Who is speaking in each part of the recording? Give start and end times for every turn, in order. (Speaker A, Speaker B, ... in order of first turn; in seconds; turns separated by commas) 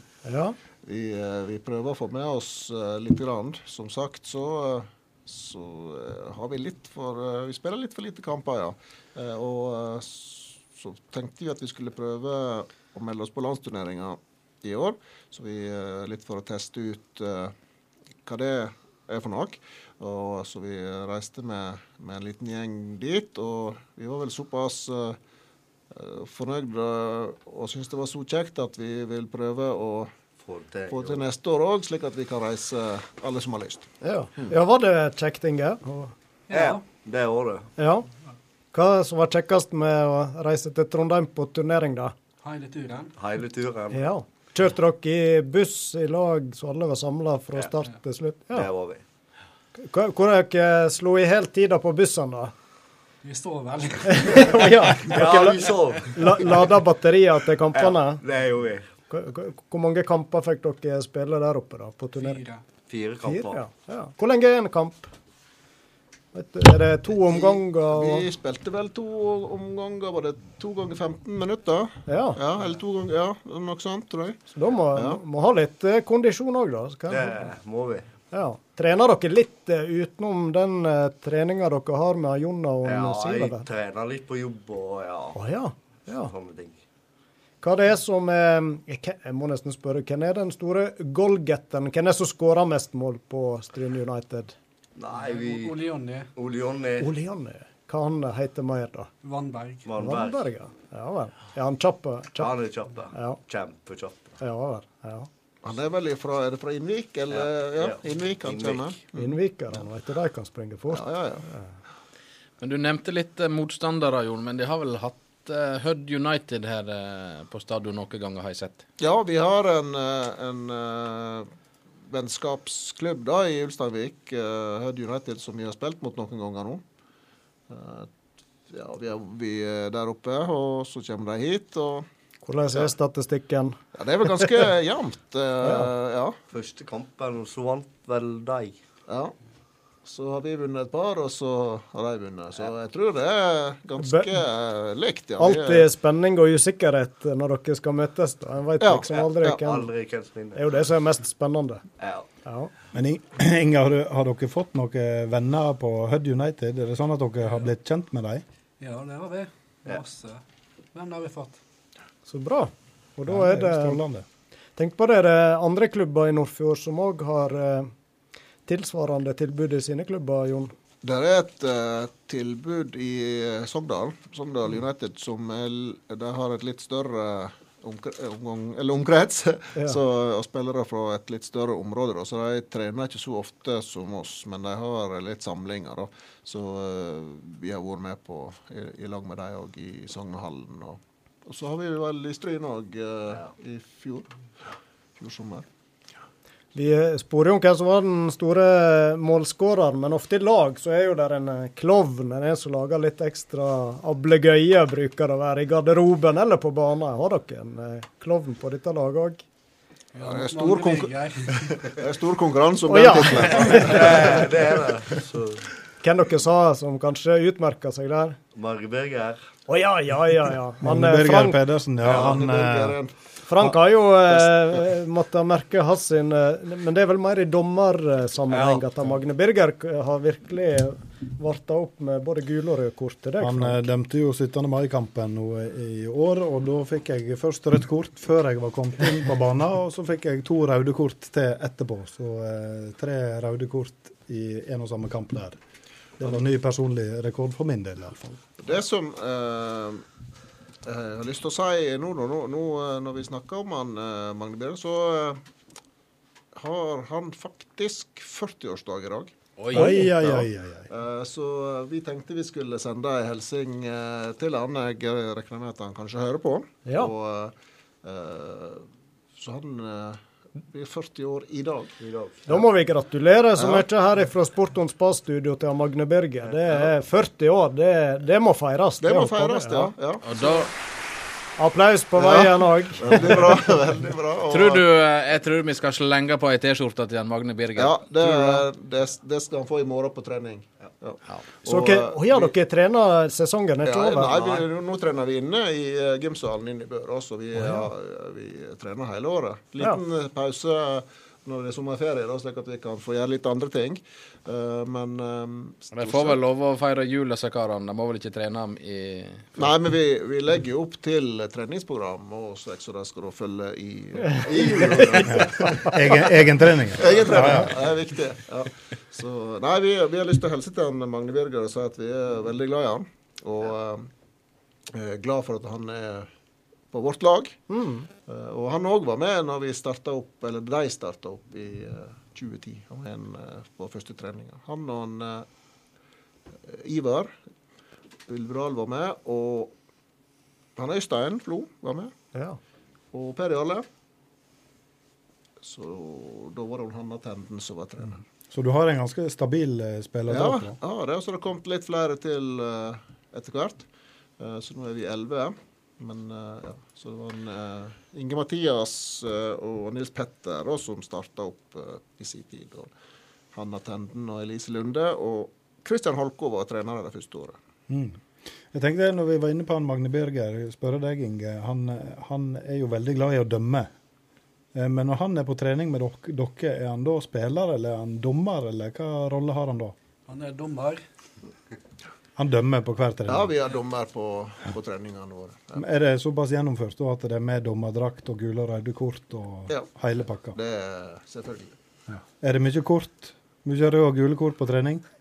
Speaker A: 0.2-0.6, Speaker B: 0.8-17.5, Speaker B: 18.2-25.2, Speaker B: 25.9-30.1, Speaker C: 30.4-31.2, Speaker B: 30.9-33.9, Speaker A: 34.0-36.1, Speaker D: 36.5-36.8, Speaker C: 36.5-37.7, Speaker A: 37.8-38.0, Speaker A: 38.7-42.1, Speaker D: 42.4-43.1, Speaker C: 43.2-44.0, Speaker A: 43.9-48.7, Speaker C: 48.5-49.0, Speaker A: 49.8-52.5, Speaker D: 53.2-55.0, Speaker A: 54.2-55.6, Speaker C: 55.0-56.5, Speaker A: 56.1-58.2, Speaker C: 57.7-58.9, Speaker A: 59.1-62.4, Speaker D: 62.1-62.6, Speaker C: 62.9-63.6, Speaker A: 63.3-65.1, Speaker A: 66.3-68.2, Speaker B: 67.2-74.4, Speaker A: 72.1-72.4, Speaker A: 74.5-77.4, Speaker B: 74.9-75.2, Speaker C: 77.1-78.1, Speaker A: 78.3-83.6, Speaker C: 82.8-85.4, Speaker A: 85.3-86.3, Speaker C: 86.1-86.8, Speaker A: 87.6-94.5, Speaker C: 95.0-97.1, Speaker D: 95.1-96.3, Speaker A: 97.0-99.1, Speaker D: 99.2-99.9, Speaker C: 99.8-100.5, Speaker A: 100.0-102.5, Speaker C: 102.4-104.4, Speaker A: 103.1-103.4, Speaker A: 104.4-105.3, Speaker B: 105.6-109.3, Speaker C: 107.3-108.9, Speaker A: 109.1-111.7, Speaker B: 110.9-111.4, Speaker E: 112.6-118.8, Speaker B: 119.0-121.5, Speaker B: 122.1-126.8, Speaker B: 127.7-128.1, Speaker B: 128.7-132.1, Speaker A: 132.4-133.8, Speaker B: 133.9-136.3, Speaker A: 135.6-135.9, Speaker C: 136.5-138.7, Speaker B: 139.1-139.3, Speaker B: 140.0-145.9, Speaker A: 144.0-144.3, Speaker A: 145.4-149.9, Speaker B: 148.8-149.6, Speaker C: 149.1-150.8, Speaker A: 150.5-151.8, Speaker C: 152.0-152.3, Speaker A: 152.4-152.7, Speaker F: 152.9-158.4, Speaker D: 158.8-160.4, Speaker D: 160.9-161.6, Speaker A: 162.3-164.0, Speaker F: 163.3-164.2, Speaker A: 164.8-167.9, Speaker A: 168.7-170.7, Speaker B: 171.0-194.3, Speaker B: 195.2-195.7, Speaker A: 196.7-209.4, Speaker D: 210.1-211.6, Speaker B: 210.2-214.5, Speaker A: 212.9-214.3, Speaker C: 213.7-215.6, Speaker A: 216.0-218.4, Speaker C: 218.5-219.4, Speaker A: 219.7-221.6, Speaker F: 220.8-223.0, Speaker B: 222.0-223.1, Speaker A: 223.5-233.9, Speaker C: 228.5-228.9, Speaker F: 233.4-245.6, Speaker F: 246.2-248.4, Speaker B: 248.6-250.0, Speaker B: 250.8-255.4, Speaker B: 256.5-259.3, Speaker E: 259.6-260.4, Speaker F: 259.7-260.9, Speaker A: 259.8-260.1, Speaker B: 260.9-271.9, Speaker A: 266.9-267.1, Speaker C: 272.0-272.6, Speaker A: 272.4-279.9, Speaker B: 273.6-273.9, Speaker B: 279.0-280.7, Speaker E: 280.2-280.7, Speaker A: 281.6-283.5, Speaker B: 282.2-284.8, Speaker E: 284.5-288.6, Speaker B: 287.8-292.5, Speaker A: 291.6-294.6, Speaker B: 293.8-306.4, Speaker A: 297.5-297.9, Speaker E: 305.9-309.6, Speaker B: 309.6-316.2, Speaker A: 314.3-316.0, Speaker F: 315.3-317.7, Speaker B: 316.9-324.1, Speaker B: 324.9-326.3, Speaker B: 326.9-327.6, Speaker A: 327.7-328.1, Speaker B: 328.3-335.5, Speaker B: 336.7-337.4, Speaker B: 338.3-339.7, Speaker B: 340.8-342.1, Speaker B: 343.1-343.9, Speaker B: 345.6-348.2, Speaker F: 348.5-350.8, Speaker B: 350.3-353.9, Speaker B: 354.4-362.9, Speaker B: 363.5-367.6, Speaker F: 367.9-373.9, Speaker F: 374.7-379.9, Speaker D: 380.3-381.0, Speaker F: 382.4-383.5, Speaker B: 383.3-385.8, Speaker F: 385.8-390.6, Speaker B: 390.5-391.7, Speaker F: 392.1-395.0